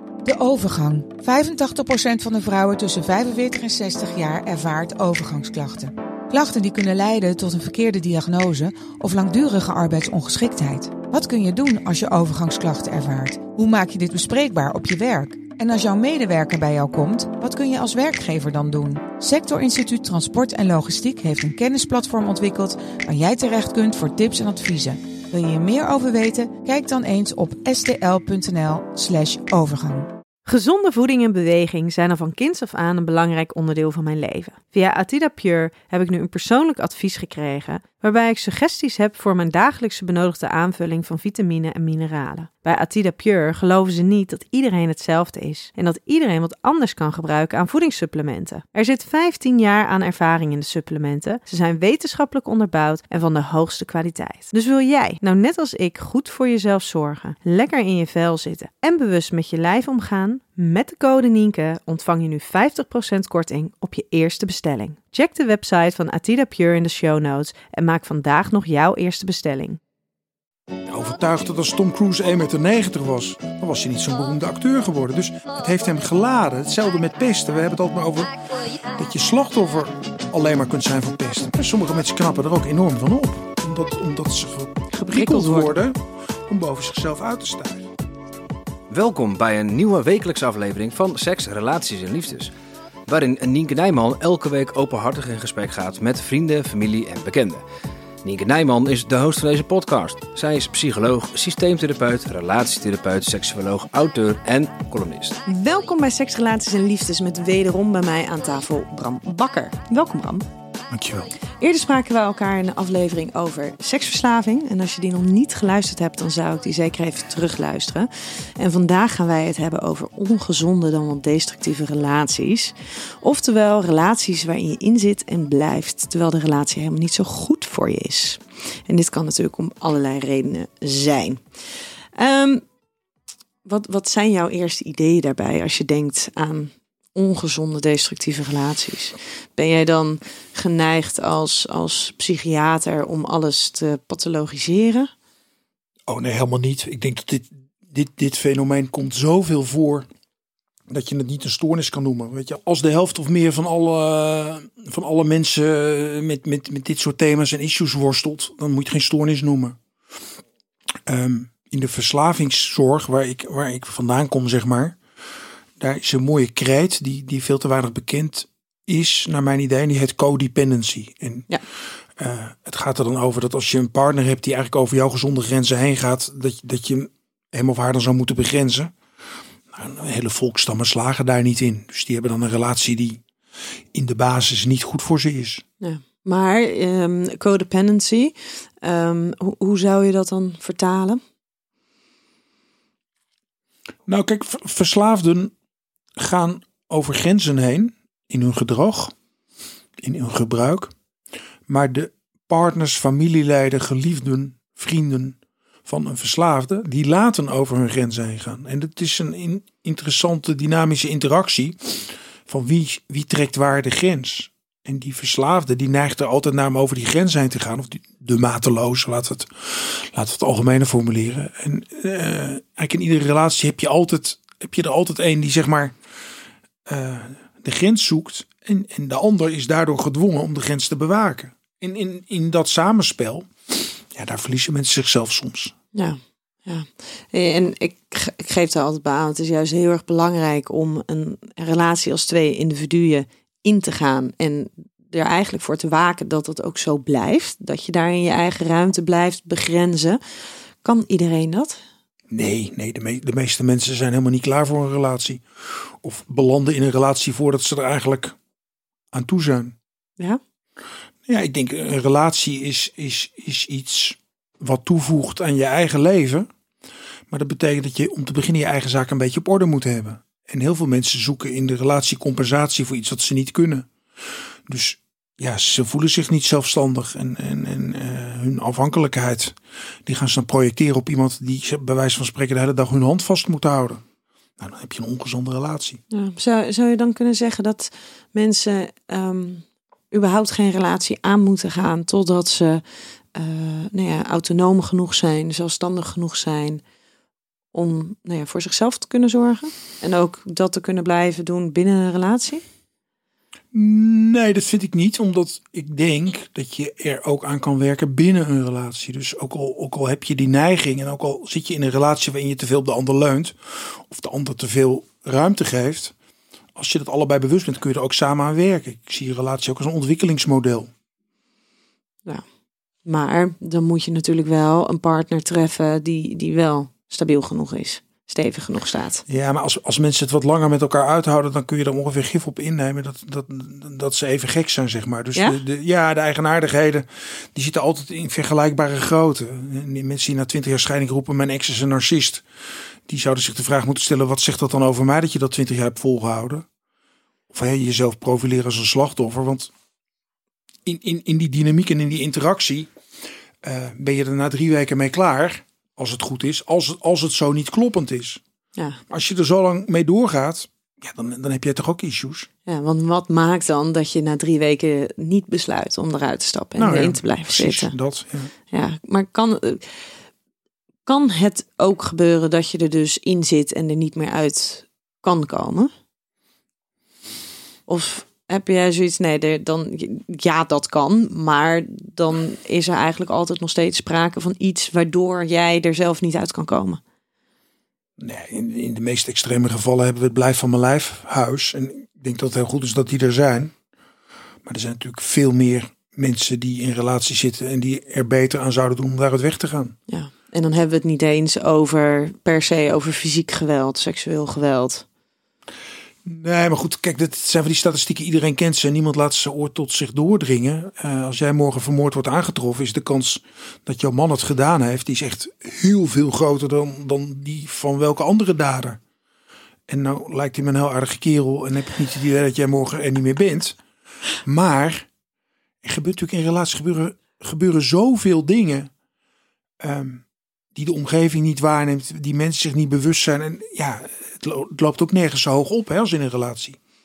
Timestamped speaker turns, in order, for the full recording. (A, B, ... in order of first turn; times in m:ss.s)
0:00.2-0:30.1 A
0:30.5-1:09.8 B
1:10.9-1:18.3 C
1:18.9-1:27.9 C
1:24.9-1:25.8 B
1:28.9-1:32.5 D
1:33.1-1:37.6 D
1:38.2-1:45.4 D
1:45.5-1:50.5 B
1:50.9-1:51.3 C
1:51.6-2:11.4 B
2:12.2-2:12.6 B
2:13.6-2:25.1 B
2:26.1-2:30.1 C
2:30.9-2:39.8 C
2:41.1-2:45.0 C
2:45.8-2:51.5 C
2:52.2-2:58.9 C
2:59.7-3:03.2 C
3:03.9-3:05.6 C
3:05.8-3:11.2 B
3:14.1-3:15.5 C
3:16.2-3:19.1 C
3:20.0-3:20.9 C
3:21.7-3:46.0 C
3:46.9-3:55.8 C
3:56.0-4:10.2 B
4:10.8-4:11.8 B
4:12.3-4:18.4 C
4:19.1-4:19.8 C
4:21.3-4:26.5 C
4:27.3-4:44.0 C
4:44.6-4:46.0 C
4:46.1-4:52.8 B
4:53.3-4:56.8 B
4:57.7-5:02.6 B
5:03.7-5:16.1 C
5:16.8-5:20.9 C
5:23.0-5:29.2 B
5:29.3-5:42.4 C
5:35.4-5:35.6 B
5:43.1-5:46.7 C
5:47.5-5:49.7 C
5:50.8-5:52.9 C
5:53.6-5:58.4 C
5:59.1-6:02.5 C
6:02.7-6:08.0 B
6:06.8-6:08.5 C
6:08.7-6:09.9 B
6:11.1-6:15.9 B
6:17.9-6:27.0 B
6:28.2-6:33.7 C
6:34.6-6:40.0 C
6:40.1-6:45.1 B
6:46.2-6:59.0 C
6:59.9-7:03.8 C
7:04.4-7:05.1 C
7:05.8-7:08.9 C
7:09.8-7:10.2 C
7:10.8-7:16.8 C